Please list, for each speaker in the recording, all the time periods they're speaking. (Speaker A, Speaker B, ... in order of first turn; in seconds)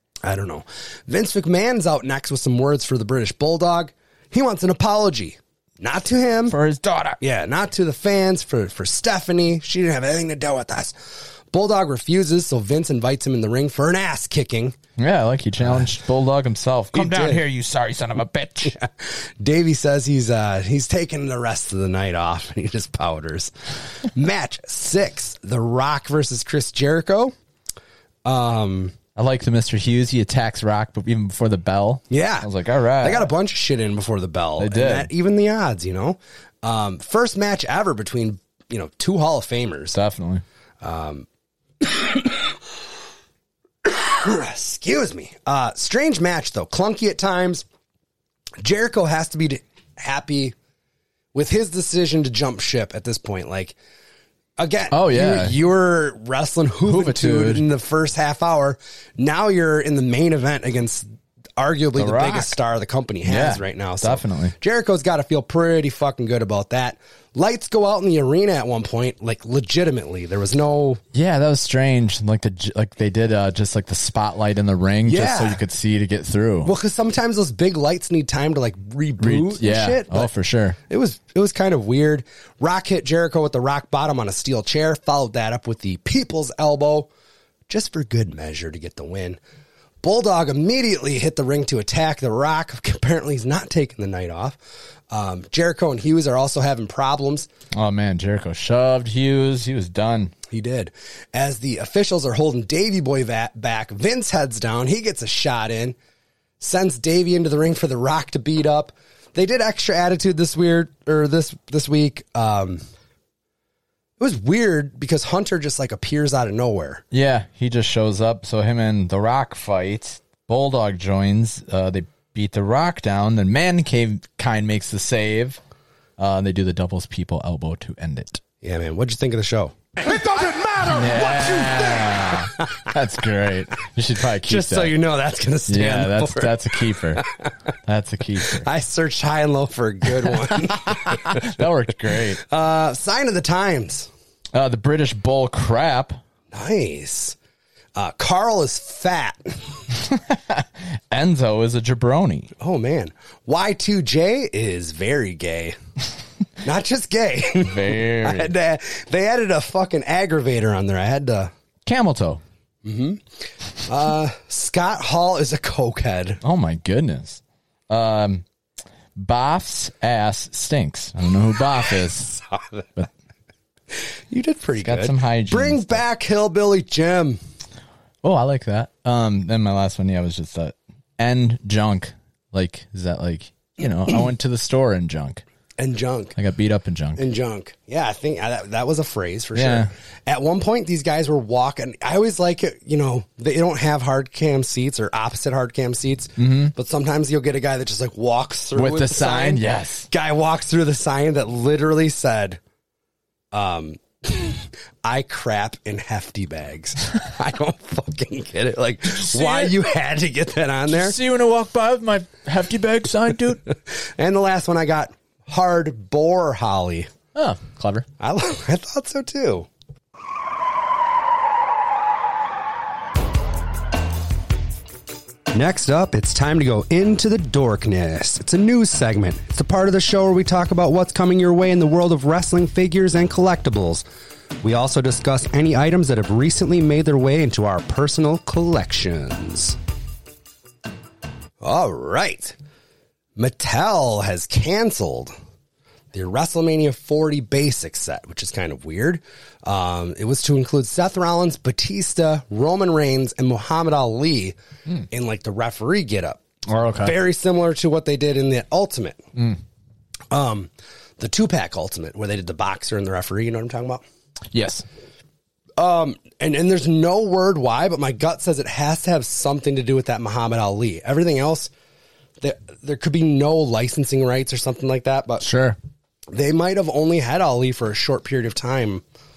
Speaker A: 0.2-6.6, 7.2-10.9, 11.5-14.8, 16.9-17.4, 18.6-23.5, 24.0-27.3, 28.2-28.9, 32.1-32.5, 33.0-40.0, 40.8-41.2, 41.8-42.5, 43.8-47.6, 48.6-50.5, 51.3-53.7, 54.6-61.0, 61.6-71.0, 75.0-75.6, 76.6-80.3, 80.9-87.1, 87.7-89.4, 90.0-94.6, 95.1-97.5, 100.5-106.0, 106.6-112.8, 114.2-117.0, 128.6-132.9, 134.4-137.5, 138.4-141.6, 142.4-144.1, 146.5-147.3, 147.9-149.6, 152.6-155.8, 156.6-161.5, 162.8-163.2, 163.8-166.4, 172.3-172.9, 174.3-177.4, 185.8-186.3, 187.2-202.6, 203.5-211.2, 213.9-217.1, 218.2-219.7, 225.5-234.0, 234.6-239.8, 241.6-242.6, 243.4-245.3, 246.1-254.6, 255.1-256.4, 257.0-259.2, 260.3-264.0, 265.8-271.7, 272.4-275.4, 276.3-279.0
Speaker B: 6.5-7.2, 15.0-18.7, 29.1-33.3, 34.6-35.1, 39.9-40.4, 54.9-55.6, 56.8-57.6, 62.0-62.6, 63.2-64.5, 71.1-76.7, 79.2-80.8, 97.7-100.3, 117.1-125.6, 126.2-128.4, 130.8-135.0, 135.7-137.2, 137.8-138.7, 140.2-142.4, 144.5-146.2, 150.0-152.5, 157.6-158.5, 161.8-162.4, 166.4-168.4, 169.2-172.3, 174.8-176.0, 178.2-185.4, 186.3-187.3, 189.5-189.9, 196.4-196.7, 198.7-200.1, 209.1-209.8, 210.9-213.6, 217.3-218.1, 256.7-257.1, 264.5-264.8, 275.4-275.8